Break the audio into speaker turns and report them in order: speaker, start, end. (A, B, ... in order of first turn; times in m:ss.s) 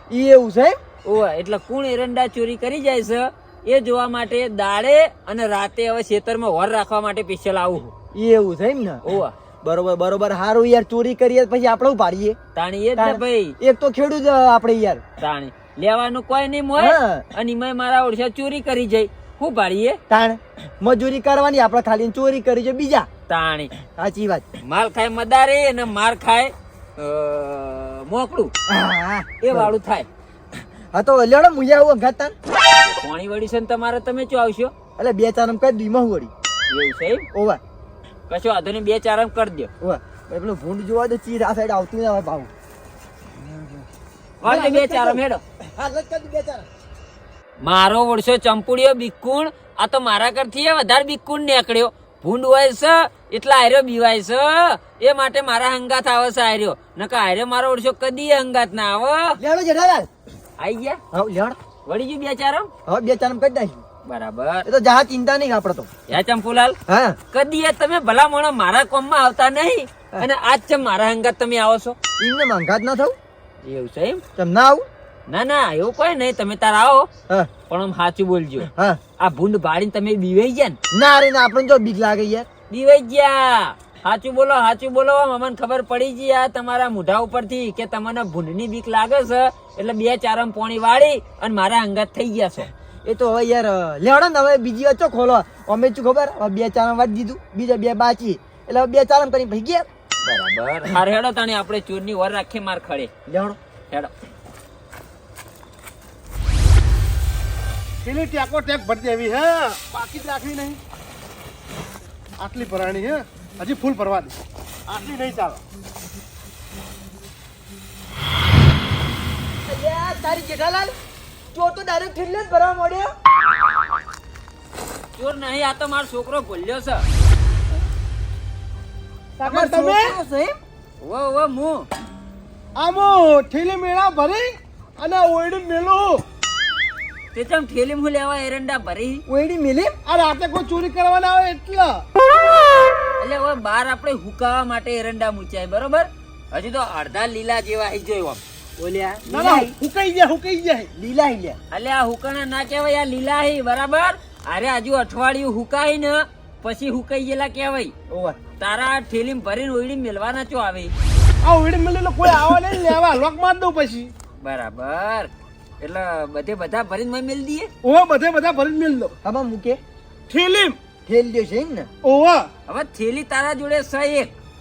0:00.1-0:00.8 A
0:01.0-0:07.9 B
0:08.1-0:09.0 A
0:09.0-0:09.4 B
0:09.6-0:12.4 A
0:12.6-0:13.6 B
0:13.0-0:15.0 A
0:15.2-0:20.0 B
0:16.8-0:17.3 A
0:20.1-0:23.1 A
0:23.3-0:23.7 B
0:23.9-0:24.5 A
0:24.7-0:28.5 B
0:28.7-0:29.7 A
0:29.4-0:30.1 B
0:30.9-0:32.3 A
0:33.0-0:34.7 B
0:35.0-0:36.3 A
0:36.7-0:37.3 B
0:37.3-0:37.6 A
0:38.3-0:39.7 B
0:39.8-0:42.5 A
0:44.4-0:45.4 B
0:44.4-0:46.7 A
0:47.6-0:59.4 B
0:59.4-1:00.1 A
1:00.6-1:01.0 B
1:01.1-1:01.6 A
1:01.9-1:02.7 B
1:02.9-1:03.8 A
1:04.1-1:04.7 B
1:04.7-1:05.9 A
1:06.1-1:06.8 B
1:06.9-1:07.2 A
1:07.3-1:12.0 B
1:12.2-1:13.2 A
1:13.6-1:14.2 B
1:14.4-1:14.8 A
1:15.3-1:17.1 B
1:17.7-1:18.7 B
1:18.7-1:19.0 A
1:19.2-1:20.8 B
1:20.9-1:22.5 A
1:22.7-1:32.7 B
1:33.1-1:39.9 A
1:40.2-1:43.1 B
1:43.3-1:43.6 A
1:48.0-1:50.8 C
1:52.4-1:54.4 C
1:54.9-1:55.6 C
1:59.7-2:01.0 A
2:01.5-2:03.1 A
2:05.2-2:07.0 B
2:09.4-2:10.2 C
2:09.4-2:10.6 A
2:11.0-2:11.9 B
2:12.8-2:16.2 C
2:17.3-2:19.2 B
2:19.3-2:20.0 A
2:20.1-2:22.0 C
2:23.2-2:28.4 B
2:28.8-2:29.8 A
2:29.3-2:30.9 C
2:31.0-2:31.6 A
2:31.7-2:37.9 B
2:38.1-2:38.4 A
2:38.6-2:40.9 B
2:41.4-2:44.1 C
2:44.4-2:47.7 B
2:47.8-2:49.1 C
2:49.2-2:49.8 A
2:50.3-2:50.8 C
2:51.1-2:51.9 A
2:52.0-2:52.5 C
2:52.7-2:54.3 B